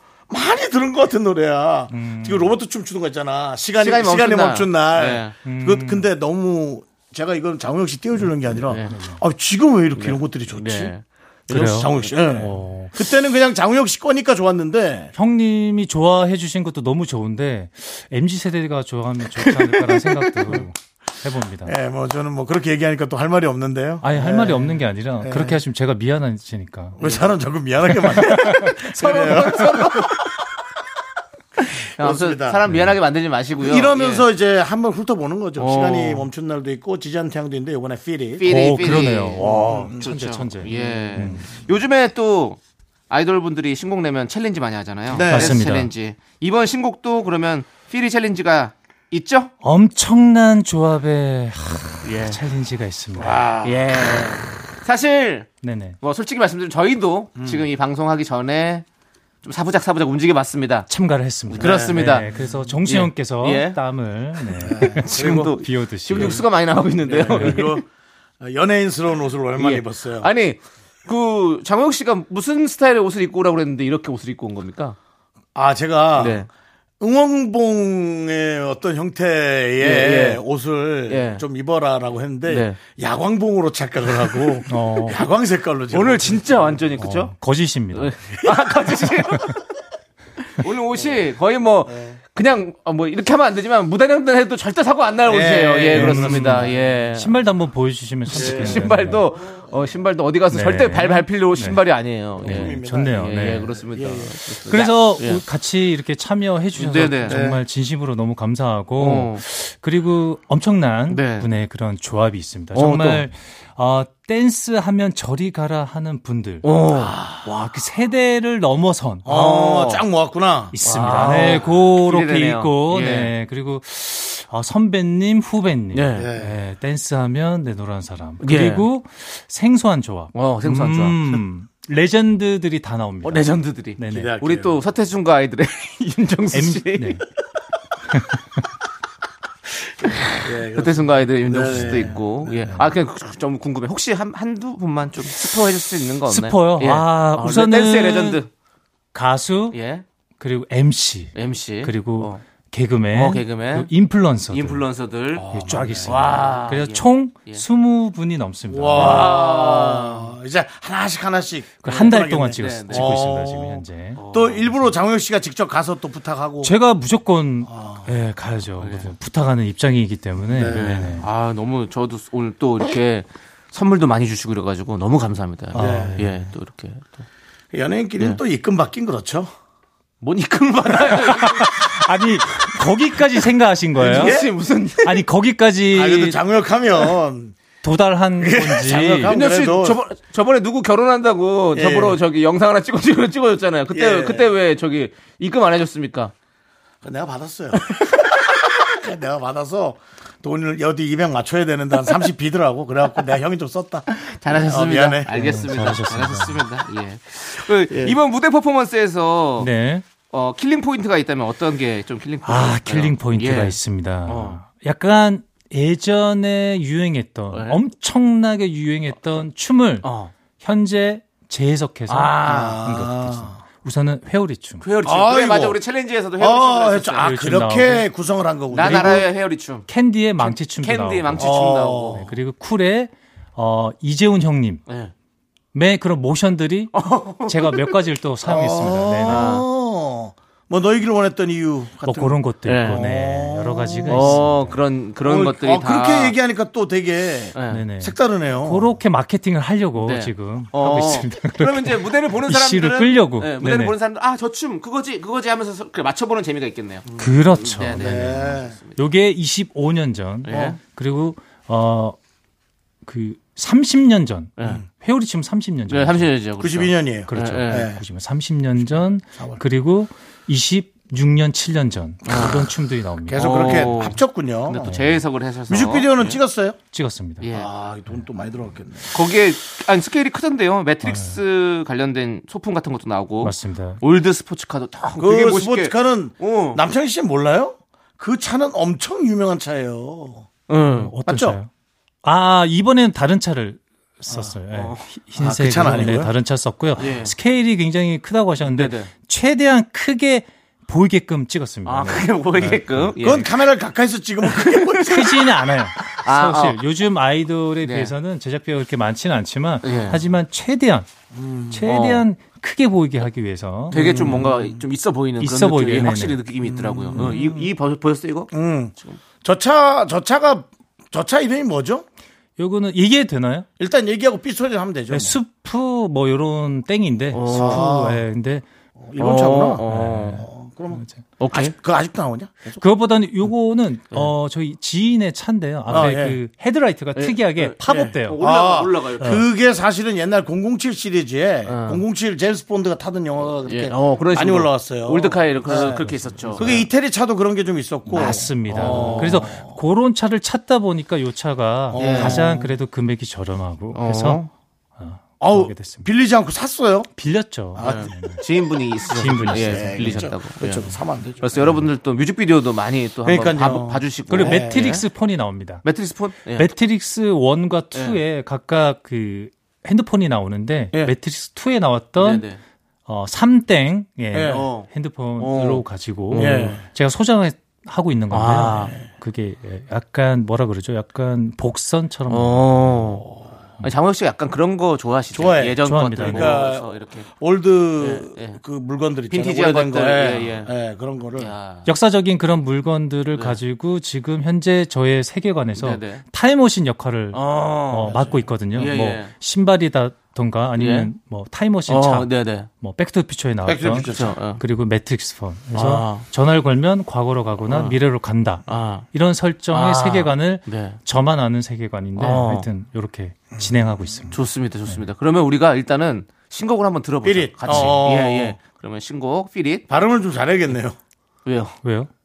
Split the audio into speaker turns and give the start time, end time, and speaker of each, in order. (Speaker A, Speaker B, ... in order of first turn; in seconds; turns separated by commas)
Speaker A: 0.3-10.9, Speaker B: 1.9-2.5, Speaker C: 3.8-5.3, Speaker B: 5.4-6.1, Speaker C: 8.7-9.0, Speaker B: 8.9-9.2, Speaker C: 10.0-11.7, Speaker B: 11.5-12.9, Speaker A: 11.5-15.1, Speaker B: 15.1-21.7, Speaker C: 19.4-20.6, Speaker A: 21.6-25.6, Speaker B: 24.0-27.0, Speaker A: 27.0-30.5, Speaker C: 28.2-30.3, Speaker B: 28.2-29.3, Speaker C: 32.0-34.3, Speaker A: 32.0-32.6, Speaker B: 32.6-33.0, Speaker A: 33.6-40.1, Speaker C: 35.6-36.3, Speaker C: 38.4-42.6, Speaker B: 38.4-41.5, Speaker A: 40.7-41.3, Speaker C: 43.1-49.5, Speaker A: 45.1-45.6, Speaker B: 45.2-45.9, Speaker B: 49.6-53.4, Speaker C: 52.0-52.4, Speaker A: 53.2-53.8, Speaker C: 53.6-55.5, Speaker B: 55.6-56.0, Speaker C: 56.0-58.8, Speaker A: 57.4-57.6, Speaker C: 59.4-60.9, Speaker B: 60.9-66.5, Speaker C: 61.5-62.3, Speaker A: 61.5-62.5, Speaker C: 62.9-63.8, Speaker A: 64.6-65.5, Speaker C: 64.8-67.8, Speaker A: 67.0-67.8, Speaker B: 67.3-67.7, Speaker A: 68.4-70.3, Speaker C: 69.6-75.0, Speaker A: 75.5-76.4, Speaker C: 76.2-76.5, Speaker A: 77.0-86.8, Speaker C: 79.8-80.4, Speaker C: 81.1-81.4, Speaker C: 82.5-82.8, Speaker B: 84.7-85.2, Speaker C: 85.9-87.3, Speaker B: 87.0-88.2, Speaker C: 87.9-89.6, Speaker C: 90.5-97.4, Speaker A: 91.9-92.2, Speaker A: 95.2-96.7, Speaker B: 95.9-99.3, Speaker C: 98.3-105.4, Speaker A: 98.3-98.9, Speaker B: 100.5-101.8, Speaker B: 102.4-103.8, Speaker A: 102.4-104.3, Speaker B: 104.7-116.7, Speaker C: 106.7-107.4, Speaker A: 107.3-107.6, Speaker C: 109.0-109.4, Speaker C: 111.1-111.5, Speaker C: 112.7-113.2, Speaker C: 116.6-117.1, Speaker A: 117.0-117.6, Speaker B: 117.4-119.3, Speaker A: 119.2-120.7, Speaker C: 119.3-120.0, Speaker B: 120.7-134.3, Speaker C: 120.8-123.3, Speaker C: 125.9-126.3, Speaker A: 126.2-126.6, Speaker C: 128.4-128.9, Speaker C: 130.3-131.4, Speaker C: 133.2-137.2, Speaker A: 134.1-134.8, Speaker B: 136.5-137.2, Speaker B: 138.1-138.4, Speaker C: 140.0-148.5, Speaker A: 140.4-142.7, Speaker B: 141.7-142.1, Speaker B: 146.3-148.4, Speaker B: 149.1-149.8, Speaker C: 149.7-150.0, Speaker B: 150.4-154.8, Speaker C: 151.3-152.4, Speaker C: 153.1-153.9, Speaker C: 154.5-155.4, Speaker A: 155.4-156.1, Speaker B: 155.5-159.4, Speaker C: 156.0-157.6, Speaker A: 158.7-166.7, Speaker C: 158.9-160.3, Speaker B: 161.8-164.9, Speaker C: 161.8-163.2, Speaker C: 164.2-164.6, Speaker B: 166.6-171.2, Speaker A: 167.7-168.1, Speaker C: 168.8-169.1, Speaker A: 170.4-170.9, Speaker C: 170.6-177.2, Speaker B: 175.7-176.4, Speaker A: 175.8-176.2, Speaker A: 177.7-179.5, Speaker C: 180.2-181.9, Speaker B: 181.1-184.4, Speaker A: 184.0-184.5, Speaker C: 184.0-185.2, Speaker B: 185.0-186.4, Speaker A: 185.9-187.6, Speaker B: 187.8-189.4, Speaker A: 188.4-190.0, Speaker C: 189.2-196.3, Speaker A: 191.7-192.2, Speaker A: 193.9-194.5, Speaker A: 197.0-205.6, Speaker C: 204.1-209.7, Speaker B: 205.3-206.6, Speaker B: 209.6-210.1, Speaker C: 210.3-214.6, Speaker B: 212.4-224.8, Speaker C: 217.5-217.8, Speaker C: 220.0-220.3, Speaker C: 222.1-222.8, Speaker A: 222.5-223.6, Speaker C: 224.8-227.3, Speaker A: 225.0-225.8, Speaker A: 226.4-229.3, Speaker B: 227.2-228.1, Speaker C: 228.7-232.2, Speaker B: 228.8-229.3, Speaker B: 229.9-234.8, Speaker A: 231.4-232.3, Speaker B: 235.7-239.6, Speaker C: 236.9-237.9, Speaker A: 238.4-244.5, Speaker C: 239.3-239.7, Speaker B: 242.0-244.8, Speaker C: 242.6-243.0, Speaker C: 244.1-246.3, Speaker A: 245.2-248.9, Speaker C: 247.5-247.8, Speaker B: 247.7-253.9, Speaker C: 250.0-259.0, Speaker A: 257.1-257.4, Speaker B: 257.2-262.1, Speaker A: 257.9-258.8, Speaker C: 260.4-260.8, Speaker B: 263.0-266.3, Speaker C: 265.9-267.9, Speaker A: 266.6-268.0, Speaker B: 267.3-273.9, Speaker C: 272.2-272.6, Speaker A: 273.3-274.9, Speaker C: 273.3-276.4, Speaker A: 275.7-276.8, Speaker B: 276.9-277.4, Speaker C: 277.4-277.7, Speaker A: 277.5-279.1, Speaker C: 279.1-286.8, Speaker B: 281.0-281.4, Speaker B: 283.4-284.0, Speaker A: 285.2-290.5, Speaker C: 290.7-291.1, Speaker B: 290.9-291.7, Speaker A: 291.2-291.6, Speaker B: 292.2-303.2, Speaker C: 294.7-295.0, Speaker A: 295.4-296.3, Speaker C: 297.0-297.3, Speaker C: 298.6-299.1, Speaker C: 301.8-303.5, Speaker A: 303.2-305.3, Speaker C: 304.4-305.5, Speaker B: 305.0-311.1, Speaker C: 306.0-306.8, Speaker C: 307.8-308.1, Speaker C: 309.8-310.2, Speaker A: 311.3-311.8, Speaker B: 311.7-314.3, Speaker C: 311.9-312.2, Speaker C: 313.9-319.2, Speaker A: 313.9-314.6, Speaker B: 315.4-316.5, Speaker A: 316.6-317.7, Speaker A: 318.5-322.1, Speaker B: 322.6-323.7, Speaker A: 323.8-325.4, Speaker B: 325.1-328.6, Speaker C: 327.3-327.9, Speaker A: 327.5-328.2, Speaker A: 329.0-329.8, Speaker C: 329.2-330.4, Speaker B: 329.8-331.1, Speaker A: 330.4-332.8, Speaker C: 331.4-331.7, Speaker B: 332.8-338.4, Speaker A: 335.9-336.4, Speaker C: 337.1-339.4, Speaker A: 337.9-349.8, Speaker C: 341.7-342.0, Speaker C: 343.6-346.9, Speaker B: 345.6-346.8, Speaker B: 348.1-354.4, Speaker C: 348.1-349.5, Speaker A: 351.9-352.7, Speaker C: 351.9-352.4, Speaker C: 353.9-354.5, Speaker B: 355.0-356.1, Speaker A: 355.4-357.1, Speaker B: 357.2-358.4, Speaker A: 357.7-358.1, Speaker C: 357.8-365.0, Speaker B: 359.1-360.4, Speaker A: 359.5-361.8, Speaker A: 363.2-364.9, Speaker B: 364.3-365.9, Speaker C: 365.8-366.7, Speaker B: 366.5-372.4, Speaker C: 367.9-368.2, Speaker C: 372.2-372.6, Speaker B: 373.1-383.2, Speaker A: 374.3-374.6, Speaker C: 374.4-376.8, Speaker A: 376.3-376.9, Speaker C: 378.3-378.9, Speaker C: 382.3-383.2, Speaker C: 383.8-387.3, Speaker A: 385.3-391.5, Speaker B: 385.8-386.6, Speaker C: 388.0-388.6, Speaker C: 389.3-390.7, Speaker C: 391.4-391.9, Speaker B: 391.8-414.4, Speaker C: 393.3-393.6, Speaker C: 395.7-396.2, Speaker C: 397.3-399.3, Speaker C: 400.8-401.1, Speaker C: 401.9-402.7, Speaker A: 403.6-404.4, Speaker C: 403.9-404.6, Speaker C: 405.7-406.2, Speaker C: 407.7-408.0, Speaker C: 408.7-409.1, Speaker C: 409.7-411.0, Speaker C: 412.2-412.7, Speaker A: 413.5-414.2, Speaker C: 414.3-419.8, Speaker A: 417.2-418.6, Speaker B: 417.6-418.0, Speaker A: 419.9-421.0, Speaker C: 421.4-421.8, Speaker B: 421.8-422.1